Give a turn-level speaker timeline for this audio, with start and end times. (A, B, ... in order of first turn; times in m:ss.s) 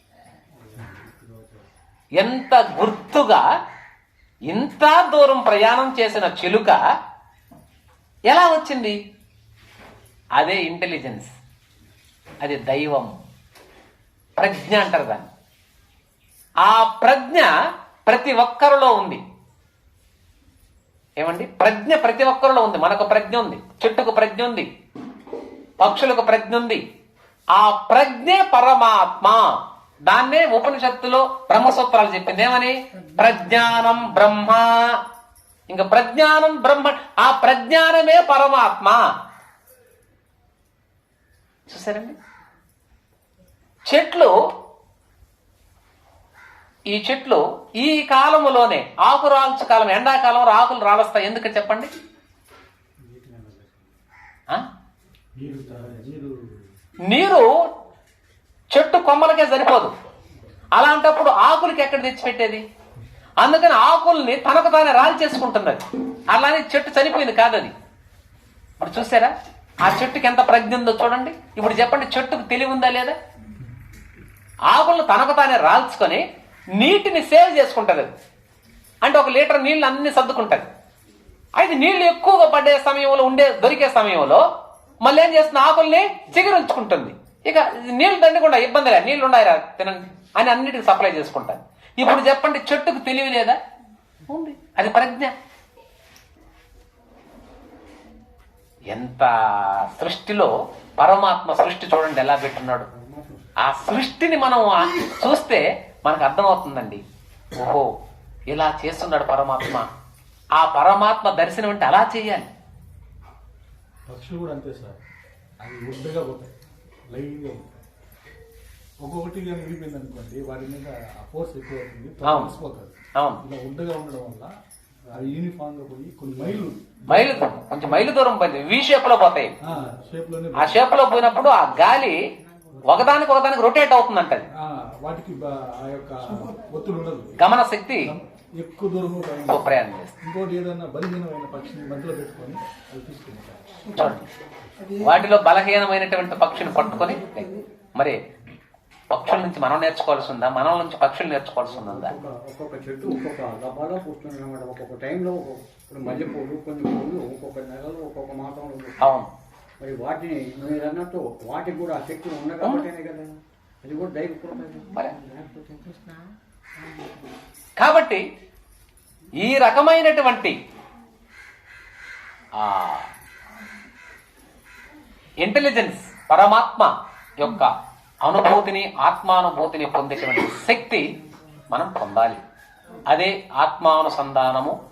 0:00.6-0:01.6 A
0:02.2-0:03.4 B
0:04.5-0:06.8 B
0:08.3-0:09.0 B
0:10.4-0:11.3 B
0:12.4-0:13.2 B
0:14.4-0:15.3 B
0:16.6-0:17.5 B
0:18.0-0:19.2 B
0:21.2-0:24.7 B
0:25.8-0:26.8 B
0:27.5-0:29.4 B
0:30.1-0:34.9 B
0:35.7-0:39.0 B
0:41.7-0:42.2 B
0:43.9-0:44.3 B
0:46.9-0:51.9 B
0:53.0-0:54.0 A
0:55.4-0:56.3 C
0:55.4-0:56.0 A
0:57.1-0:57.5 B
0:58.7-0:59.9 B
1:00.7-1:02.6 B
1:03.4-1:07.7 B
1:08.8-1:13.2 B
1:14.7-1:16.2 B
1:16.8-1:18.1 B
1:19.0-1:20.7 B
1:21.6-1:24.4 B
1:25.0-1:33.6 B
1:34.3-1:35.3 B
1:38.9-1:42.9 B
1:42.9-1:43.4 A
1:43.6-1:47.0 B
1:47.6-1:47.9 B
1:48.5-1:49.8 B
1:50.6-1:52.5 B
1:54.1-1:55.0 C
1:55.6-1:56.5 C
1:57.1-1:57.8 C
1:59.0-2:04.5 C
2:02.2-2:02.5 B
2:03.1-2:03.4 B
2:05.1-2:08.1 C
2:07.1-2:09.5 B
2:09.6-2:10.8 C
2:10.5-2:12.2 B
2:12.8-2:13.2 C
2:12.8-2:14.4 B
2:14.6-2:17.5 C
2:17.4-2:18.1 B
2:18.0-2:23.6 C
2:19.5-2:20.1 B
2:24.0-2:24.3 B
2:25.0-2:28.2 B
2:29.1-2:32.1 B
2:31.7-2:39.1 A
2:39.0-2:39.3 B
2:39.8-2:46.2 A
2:47.8-2:48.2 B
2:49.4-2:50.6 B
2:52.6-2:53.1 B
2:55.4-2:57.7 B
2:58.2-3:01.0 B
3:01.7-3:02.4 B
3:03.1-3:04.8 B